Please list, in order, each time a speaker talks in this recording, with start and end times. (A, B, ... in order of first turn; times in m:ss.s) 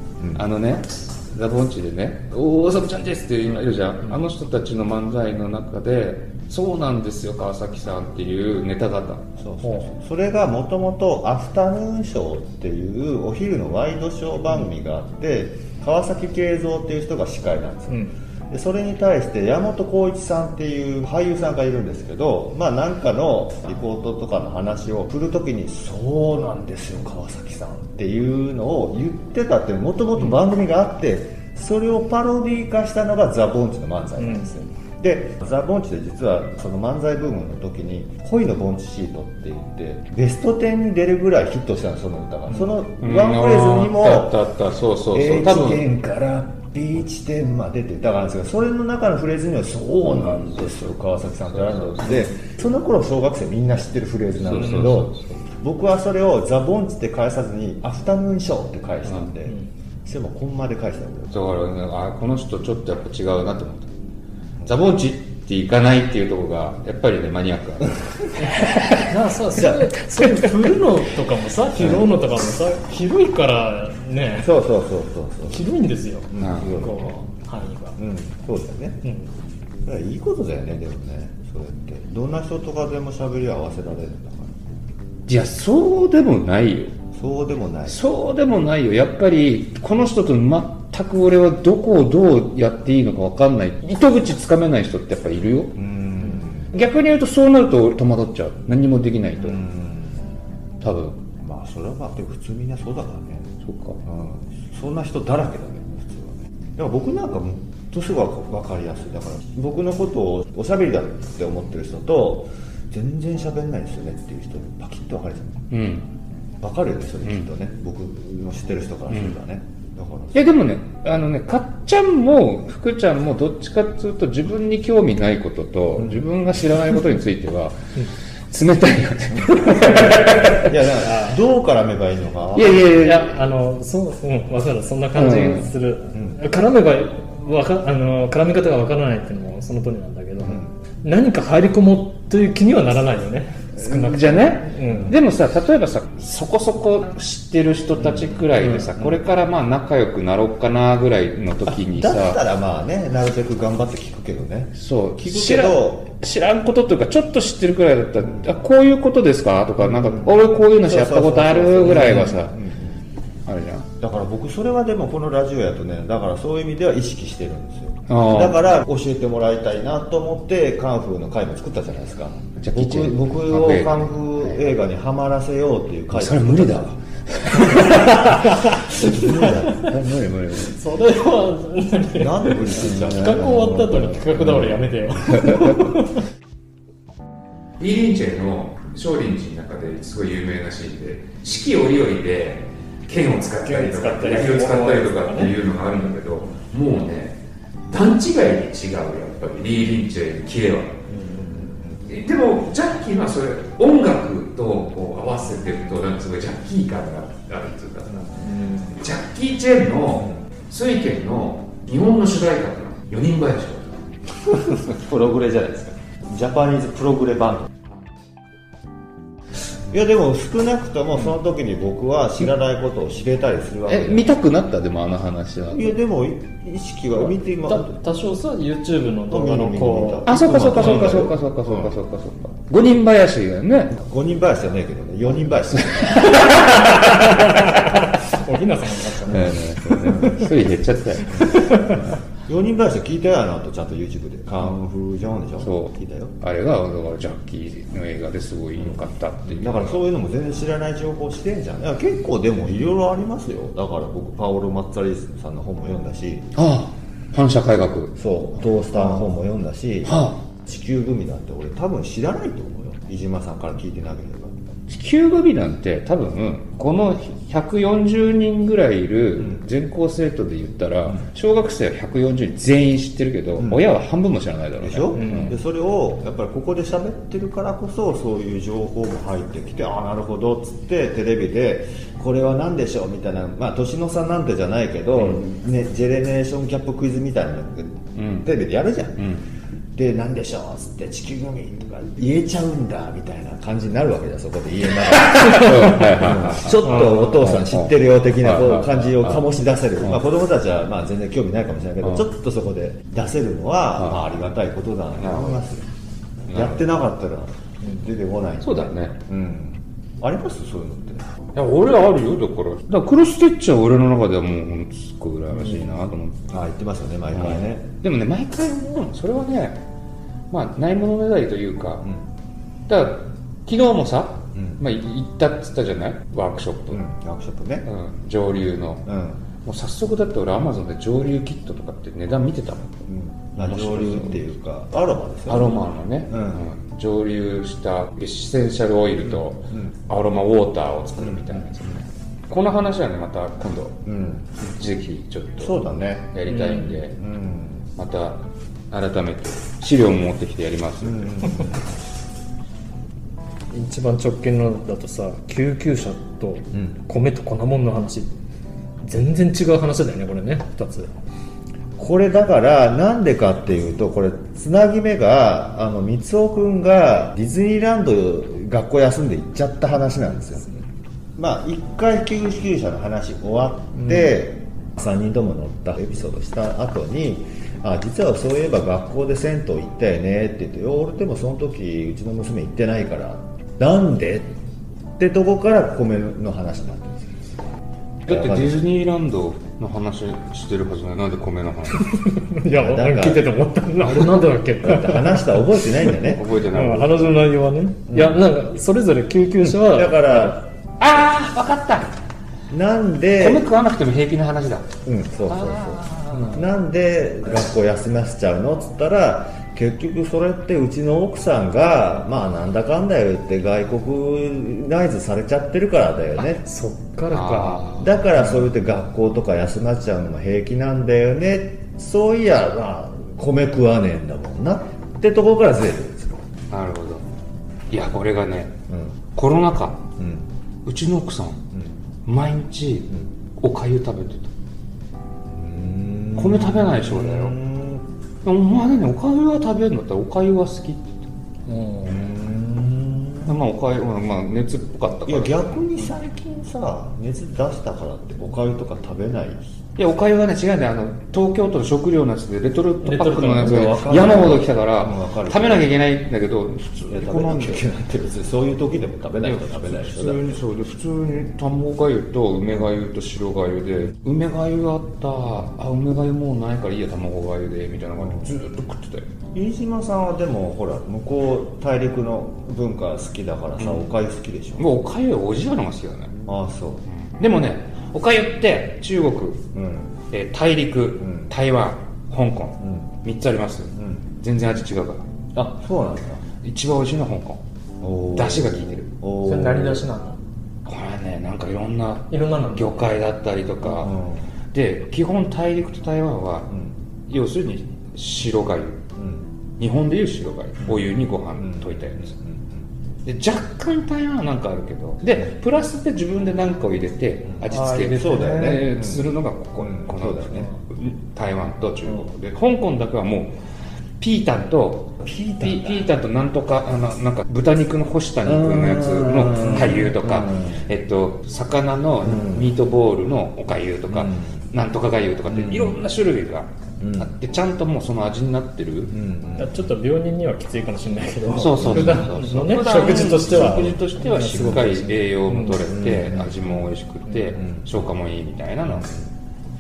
0:00.2-0:00.4 A
0:00.4-0:09.3 B
0:09.4-0:44.4 A
0:09.6-0:09.9 C
0:34.2-0:34.7 C
0:43.0-0:45.9 B
0:45.1-1:01.4 A
0:50.1-0:51.0 B
0:51.5-0:52.3 B
0:54.4-0:55.3 B
0:59.0-0:59.3 B
1:01.3-1:03.9 B
1:04.6-1:09.0 B
1:09.1-1:14.5 C
1:09.5-1:09.9 A
1:14.4-1:15.7 A
1:15.5-1:18.0 C
1:16.3-1:17.3 A
1:16.4-1:16.8 B
1:18.0-1:19.0 A
1:19.0-1:19.3 C
1:19.8-1:24.6 A
1:25.3-1:27.0 B
1:27.2-1:28.0 A
1:27.9-1:35.8 B
1:35.8-1:36.7 A
1:36.7-1:39.6 B
1:39.4-1:40.4 A
1:40.8-1:41.2 B
1:41.4-1:55.7 A
1:43.6-1:44.0 B
1:55.7-1:56.1 B
1:56.6-2:00.4 A
2:00.3-2:07.8 B
2:06.0-2:06.2 A
2:08.5-2:10.7 B
2:09.3-2:13.2 A
2:11.0-2:11.4 C
2:12.6-2:13.4 B
2:13.0-2:25.2 C
2:15.2-2:15.7 B
2:16.1-2:16.4 A
2:20.4-2:20.7 A
2:23.8-2:32.4 B
2:28.6-2:28.9 C
2:29.0-2:29.2 A
2:31.7-2:36.0 A
2:34.8-2:42.6 B
2:38.2-2:38.5 A
2:39.8-2:43.0 A
2:43.5-2:43.9 B
2:44.0-2:56.9 A
2:48.1-2:48.7 B
2:52.6-2:54.8 B
2:56.1-2:58.5 B
2:57.5-2:58.4 A
2:58.9-3:00.2 A
2:59.1-2:59.5 C
2:59.8-3:00.7 B
3:00.7-3:06.2 C
3:02.1-3:03.8 A
3:02.8-3:04.7 B
3:05.3-3:05.6 B
3:07.8-3:17.4 B
3:13.6-3:15.5 C
3:17.9-3:21.0 B
3:21.1-3:22.1 A
3:22.1-3:28.4 B
3:28.1-3:28.5 A
3:28.5-3:28.9 C
3:29.0-3:34.0 B
3:30.2-3:30.4 A
3:34.4-3:37.7 A
3:39.9-3:44.3 A
3:43.9-3:46.0 B
3:45.7-3:48.0 A
3:47.7-3:51.2 C
3:49.3-3:52.0 A
3:50.3-3:54.0 B
3:53.9-3:56.5 A
3:55.7-3:57.1 B
3:56.5-3:59.6 C
3:59.3-4:01.9 B
3:59.3-4:00.4 A
4:00.2-4:00.4 C
4:01.3-4:01.9 A
4:01.5-4:02.0 C
4:02.5-4:06.4 A
4:05.6-4:10.0 B
4:08.8-4:16.5 A
4:16.5-4:18.2 B
4:18.2-4:24.6 A
4:19.0-4:19.3 B
4:20.0-4:20.4 B
4:24.9-4:35.6 B
4:33.6-4:33.8 A
4:34.8-4:49.3 A
4:35.2-4:35.5 C
4:45.2-4:45.4 B
4:48.2-4:48.5 B
4:49.2-4:49.4 B
4:50.0-5:05.9 A
4:55.2-4:59.5 B
4:57.0-4:57.2 C
5:04.0-5:04.2 B
5:05.2-5:05.6 B
5:06.5-5:06.9 B
5:06.5-5:11.3 A
5:08.6-5:09.1 B
5:11.6-5:16.4 B
5:16.5-5:17.9 A
5:17.3-5:19.8 B
5:20.5-5:22.1 B
5:22.9-5:27.0 B
5:24.5-5:24.8 A
5:26.9-5:27.9 A
5:27.8-5:29.1 B
5:29.1-5:29.4 A
5:29.6-5:33.0 B
5:33.1-5:36.6 A
5:33.6-5:34.4 B
5:35.5-5:44.0 B
5:39.2-5:39.9 A
5:41.2-5:42.0 A
5:44.0-5:44.5 A
5:44.6-5:45.8 B
5:45.6-5:46.4 A
5:46.3-5:47.2 B
5:46.5-5:46.9 C
5:47.2-5:47.9 A
5:48.0-5:51.7 B
5:51.0-5:51.8 A
5:53.7-5:58.4 C
5:56.7-5:57.0 A
5:59.0-6:01.1 C
6:02.0-6:10.8 A
6:11.4-6:24.5 A
6:25.2-6:27.5 A
6:28.3-6:32.1 B
6:28.3-6:28.9 A
6:32.1-6:35.8 C
6:32.6-6:33.5 A
6:34.0-6:34.5 B
6:34.8-6:36.5 A
6:36.1-6:37.5 B
6:36.7-6:40.5 C
6:38.1-6:38.4 A
6:39.6-6:40.6 A
6:41.0-6:42.1 B
6:42.7-6:43.7 A
6:43.4-6:44.9 B
6:45.0-6:56.6 A
6:45.5-6:46.7 B
6:56.4-6:57.8 C
6:57.3-6:58.1 B
6:58.0-7:06.5 A
7:06.7-7:07.2 B
7:07.9-7:08.8 B
7:08.9-7:09.2 A
7:09.3-7:10.1 B
7:10.2-7:10.5 A
7:10.9-7:11.6 B
7:12.3-7:14.5 B
7:15.5-7:18.1 A
7:16.4-7:17.6 B
7:18.4-7:21.3 B
7:21.7-7:22.2 C
7:22.0-7:23.6 A
7:23.5-7:25.9 B
7:25.3-7:29.8 A
7:30.0-7:37.8 B
7:33.0-7:34.1 C
7:33.2-7:35.9 A
7:37.1-7:40.6 A
7:39.4-7:49.3 B
7:48.2-7:48.5 A
7:49.5-7:54.9 A
7:53.8-7:54.1 B
7:54.8-7:56.4 B
7:56.5-7:57.0 A
7:57.1-7:59.6 B
7:59.7-8:00.1 A
8:00.3-8:05.2 B
8:01.2-8:01.5 A
8:02.8-8:03.1 A
8:03.9-8:04.3 A
8:05.6-8:06.4 A
8:06.6-8:07.6 B
8:08.0-8:10.0 A
8:08.3-8:09.1 B
8:09.4-8:10.4 C
8:10.9-8:14.2 B
8:12.3-8:13.1 C
8:13.9-8:14.5 A
8:14.7-8:16.7 B
8:17.3-8:19.0 B
8:19.2-8:19.5 A
8:19.8-8:22.3 B
8:21.6-8:22.9 A
8:23.3-8:33.5 B
8:27.5-8:29.3 A
8:27.7-8:28.8 C
8:29.8-8:30.7 A
8:34.2-8:49.2 B
8:35.2-8:36.1 A
8:38.4-8:40.9 A
8:42.2-8:42.7 A
8:44.1-8:44.7 A
8:45.5-8:46.0 A
8:47.0-8:47.3 A
8:49.1-8:49.8 A
8:49.6-8:55.8 C
8:51.5-8:59.2 B
8:51.6-8:52.5 A
8:53.3-8:54.9 A
8:55.8-8:56.9 A
8:57.6-8:58.0 A
8:58.9-8:59.2 A